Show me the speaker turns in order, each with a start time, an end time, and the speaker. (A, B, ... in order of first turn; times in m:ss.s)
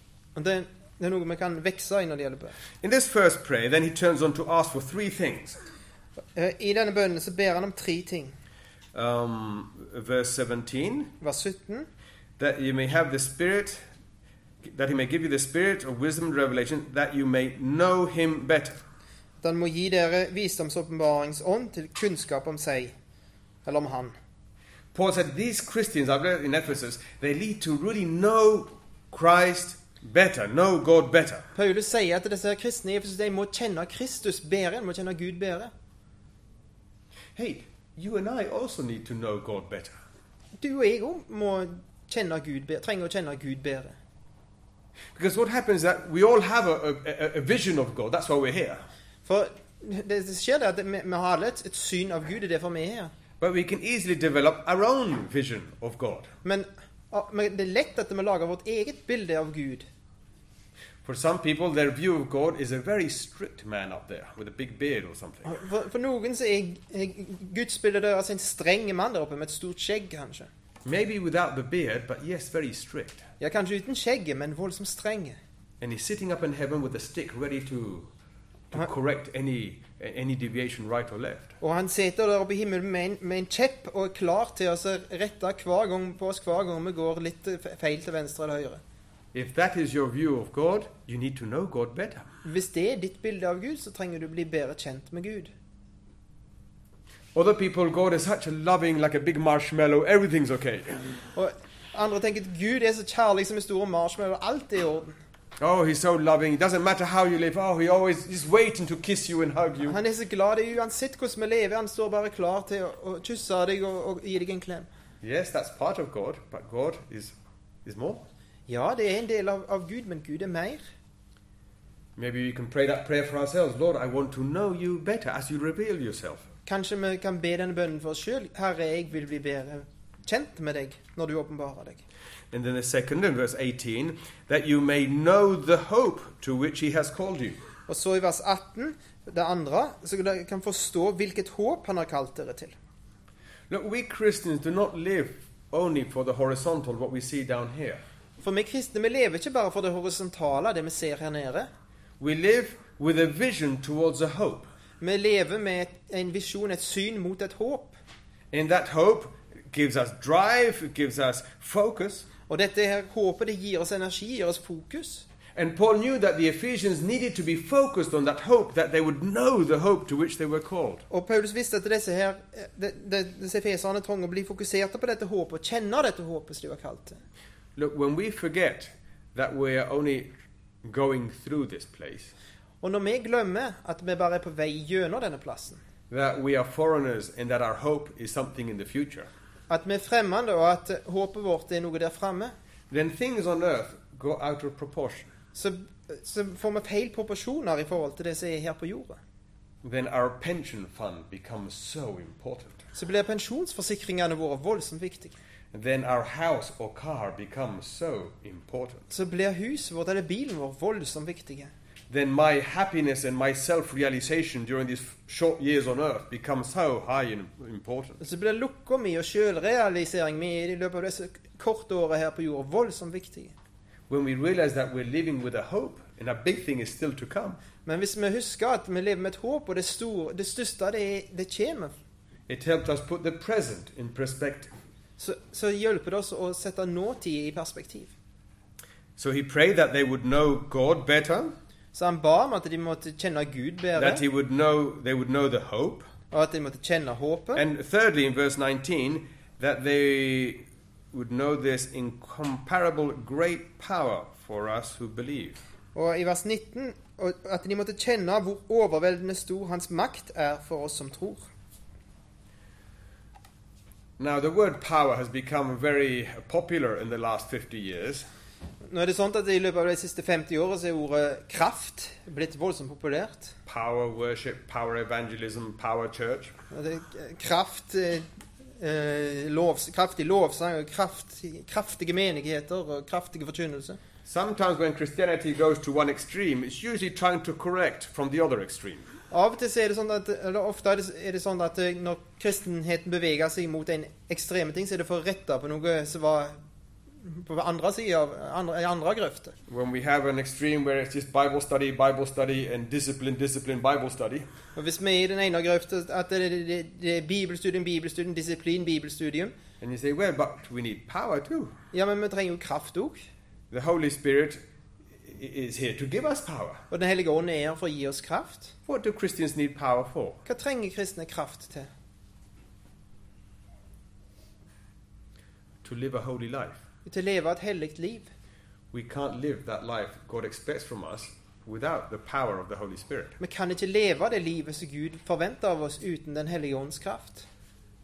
0:00.3-0:02.6 A
0:02.8-0:05.6 B
0:06.3-0:08.3 A
0:08.9-0:11.1 B
0:11.2-0:11.9 A
0:12.4-0:13.8 B
0:14.6-0:18.8 B
0:19.4-0:22.9 A
0:23.6-0:24.1 A
0:24.9-0:31.5 B
0:31.5-0:35.7 A
0:37.4-0:40.0 B
0:40.6-0:44.0 A
0:45.1-0:48.8 B
0:49.2-0:53.1 A
0:53.4-0:56.3 B
0:56.4-0:59.9 A
1:01.0-1:05.6 B
1:05.4-1:10.5 A
1:10.8-1:13.2 B
1:13.4-1:15.4 A
1:15.8-1:18.1 B
1:18.7-1:21.5 B
1:21.6-1:28.8 A
1:29.3-1:32.3 B
1:32.4-1:35.5 A
1:37.3-1:41.0 B
1:41.3-1:45.2 A
1:45.6-1:50.0 B
1:49.8-1:54.9 A
1:55.2-1:58.2 B
1:58.7-2:00.8 A
2:02.2-2:06.4 B
2:06.6-2:12.0 A
2:12.5-2:17.6 B
2:17.9-2:22.7 A
2:23.7-2:28.0 B
2:28.4-2:31.7 A
2:32.2-2:34.7 B
2:35.0-2:38.0 A
2:38.5-2:42.3 B
2:42.5-2:45.2 A
2:45.5-2:51.0 B
2:51.1-2:57.2 A
2:57.8-3:00.3 B
3:00.8-3:02.3 B
3:02.8-3:05.8 A
3:06.1-3:09.3 B
3:09.7-3:12.5 A
3:12.9-3:15.3 B
3:15.5-3:19.2 A
3:19.8-3:22.8 B
3:22.9-3:25.4 A
3:25.7-3:29.0 B
3:29.1-3:31.7 A
3:32.1-3:38.2 B
3:38.2-3:43.5 A
3:44.1-3:47.6 B
3:47.8-3:51.9 A
3:52.5-3:54.7 B
3:55.2-3:58.1 A
3:59.2-4:01.5 B
4:01.9-4:04.2 A
4:04.0-4:06.1 B
4:06.3-4:07.6 A
4:07.6-4:15.6 B
4:15.9-4:21.5 A
4:24.2-4:28.2 B
4:28.9-4:33.5 A
4:33.6-4:36.5 B
4:36.7-4:38.3 A
4:38.8-4:44.0 A
4:44.2-4:49.0 B
4:49.3-4:56.6 A
4:57.2-4:59.6 A
4:59.7-5:04.4 B
5:04.8-5:09.5 A
5:09.8-5:11.7 B
5:11.9-5:13.2 A
5:13.7-5:14.6 B
5:15.2-5:16.8 B
5:16.9-5:18.7 A
5:18.9-5:20.4 B
5:20.4-5:21.9 A
5:25.8-5:26.8 B
5:27.0-5:28.3 A
5:28.9-5:33.4 B
5:33.4-5:37.4 A